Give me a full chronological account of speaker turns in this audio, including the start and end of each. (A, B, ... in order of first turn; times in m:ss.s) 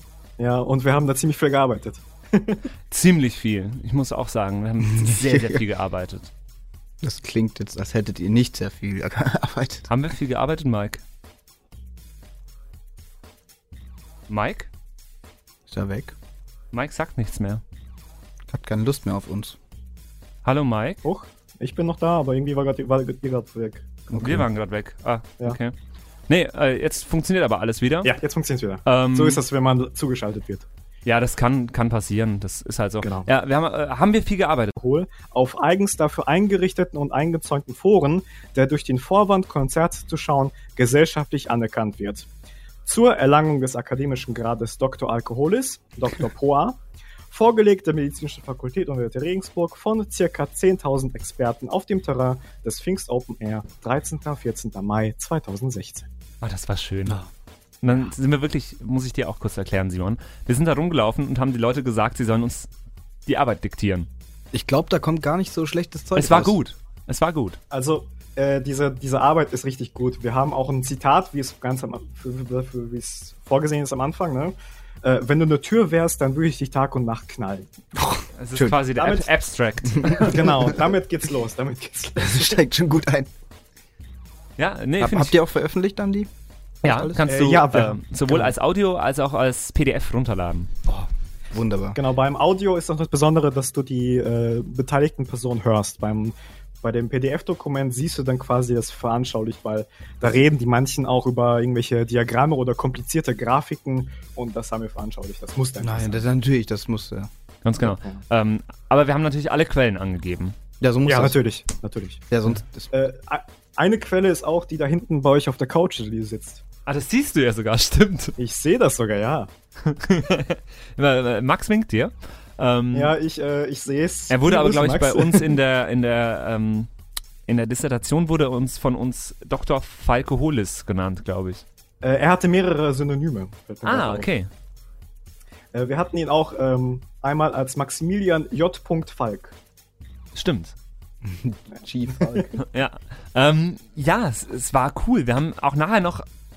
0:00.4-0:02.6 A
0:02.9-0:06.3 B
0:04.8-0:05.6 C
0:07.0-0:09.9 C
0:09.9-0:11.0 B
0:14.3-0:14.7 B
0:15.7-0:16.2 C
0:16.7-0:17.6 B
0:18.5-0:19.6 C
0:20.4-0:21.0 B
0:21.0-0:24.4 A
0:24.1-0:24.4 C
0:24.2-0:25.8 B
0:26.3-0:28.1 B
0:28.0-0:30.7 A
0:28.9-0:29.4 B
0:31.0-0:34.8 B
0:33.0-0:33.3 A
0:34.8-0:42.3 A
0:42.8-0:56.1 A
0:56.4-0:57.2 B
0:57.8-1:02.7 B
1:03.3-1:04.1 B
1:04.5-1:06.6 C
1:06.2-1:07.6 B
1:07.7-1:17.7 A
1:18.0-1:18.8 C
1:18.4-1:20.5 B
1:18.9-1:19.3 A
1:19.9-1:20.8 C
1:20.1-1:22.6 A
1:22.2-1:23.3 C
1:24.6-1:25.4 B
1:25.0-1:26.3 C
1:26.8-1:27.2 C
1:26.8-1:30.7 B
1:27.2-1:28.5 A
1:30.9-1:32.0 C
1:32.0-1:46.2 A
1:45.8-1:47.3 C
1:47.6-1:50.6 B
1:47.8-1:48.2 A
1:50.8-1:51.4 C
1:51.1-1:52.2 A
1:52.3-1:52.9 C
1:52.9-1:56.6 A
1:56.9-1:58.4 B
1:58.4-1:59.5 A
1:59.8-2:03.1 B
2:02.9-2:05.6 A
2:04.3-2:06.9 B
2:07.5-2:11.6 B
2:12.0-2:14.3 A
2:13.8-2:14.5 B
2:15.7-2:19.6 A
2:20.4-2:20.8 B
2:21.2-2:22.6 C
2:22.2-2:22.5 A
2:22.6-2:26.2 B